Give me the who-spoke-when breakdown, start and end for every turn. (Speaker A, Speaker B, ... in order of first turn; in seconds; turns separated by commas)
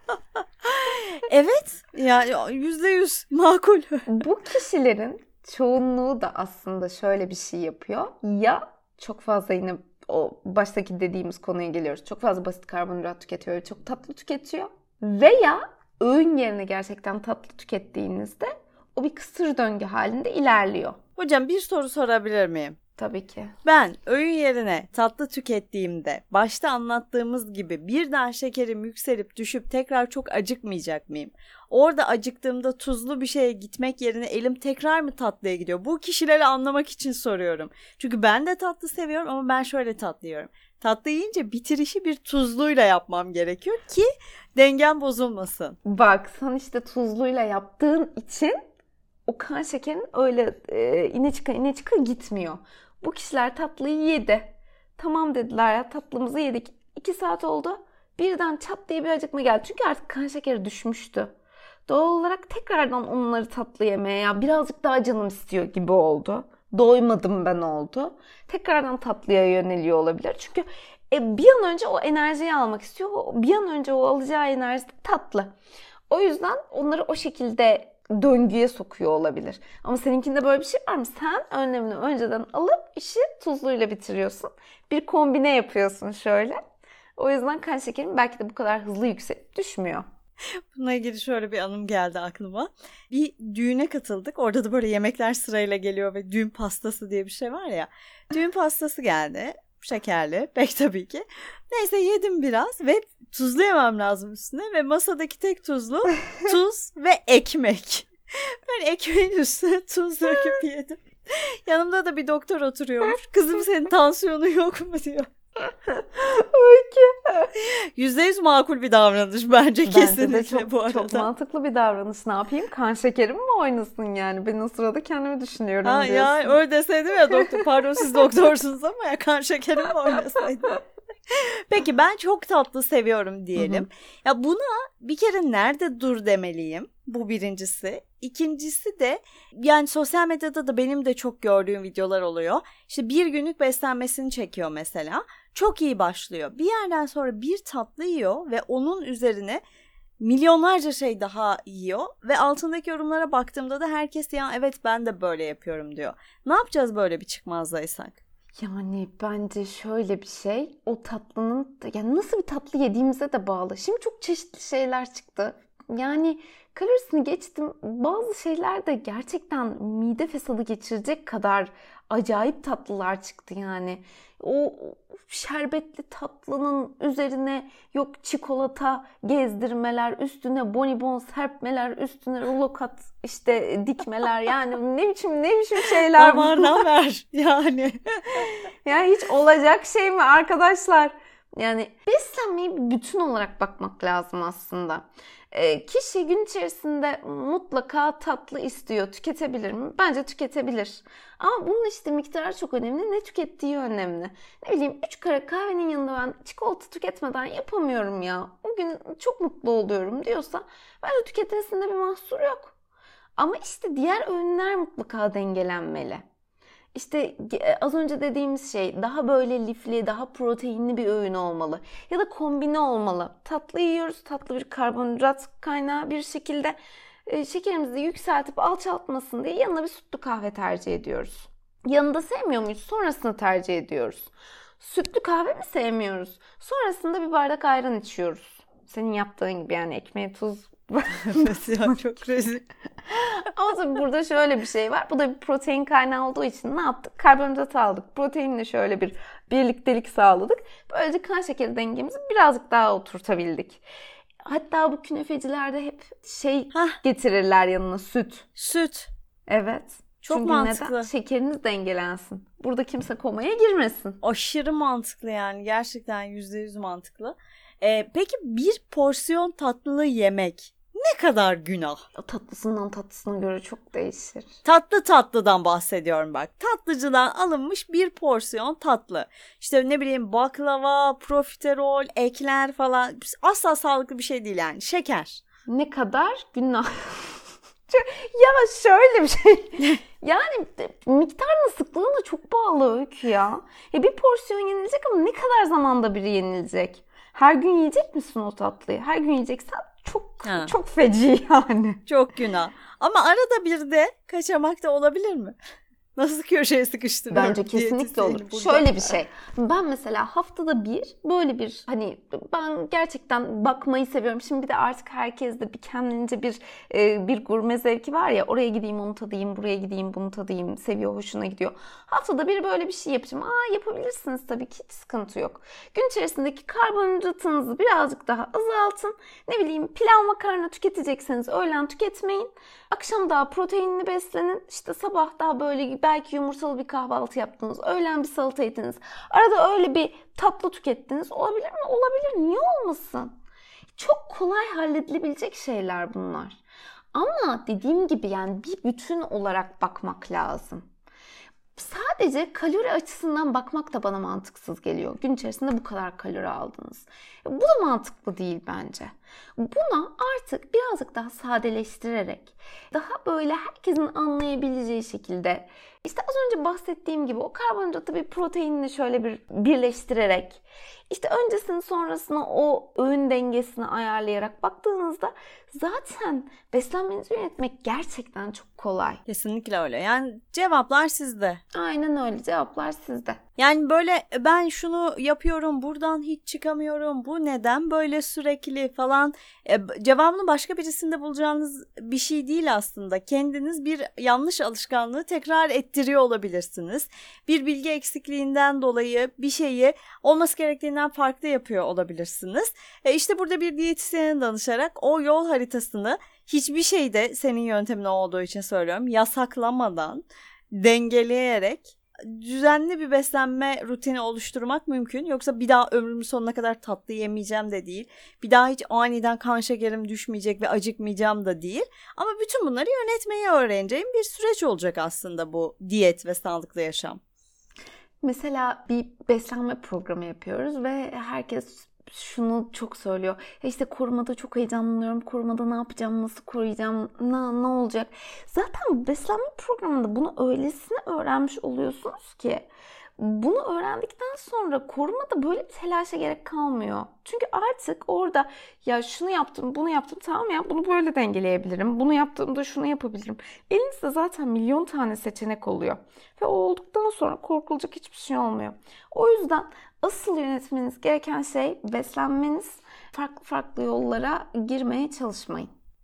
Speaker A: 0.6-4.1, Speaker B: 4.1-21.0, Speaker A: 21.2-22.8, Speaker B: 23.0-23.5, Speaker A: 23.6-45.8, Speaker B: 45.8-48.6, Speaker B: 49.3-61.3, Speaker B: 61.9-75.5, Speaker B: 76.1-86.6, Speaker B: 87.2-90.0, Speaker A: 90.7-108.1, Speaker A: 108.7-115.3, Speaker B: 115.9-117.5, Speaker A: 117.5-121.3, Speaker B: 119.8-126.6, Speaker A: 125.8-149.6, Speaker A: 150.2-158.2, Speaker B: 158.6-186.8, Speaker A: 186.1-188.4, Speaker B: 188.5-212.7, Speaker B: 213.4-216.2, Speaker B: 216.9-226.8, Speaker B: 227.3-241.6, Speaker A: 241.2-242.6, Speaker B: 243.1-253.8, Speaker B: 254.4-258.5, Speaker A: 258.6-259.1, Speaker B: 259.5-264.2, Speaker A: 260.2-261.1, Speaker A: 264.2-272.0, Speaker B: 272.2-274.5, Speaker A: 274.6-285.4, Speaker B: 285.7-302.0, Speaker A: 300.4-300.7, Speaker A: 302.1-305.5, Speaker A: 306.1-309.1, Speaker B: 307.3-343.4, Speaker B: 344.0-346.6, Speaker B: 347.1-350.8, Speaker B: 351.8-379.2, Speaker A: 379.3-381.6, Speaker B: 381.7-383.4, Speaker A: 383.6-427.2, Speaker B: 428.2-442.7, Speaker B: 443.2-465.7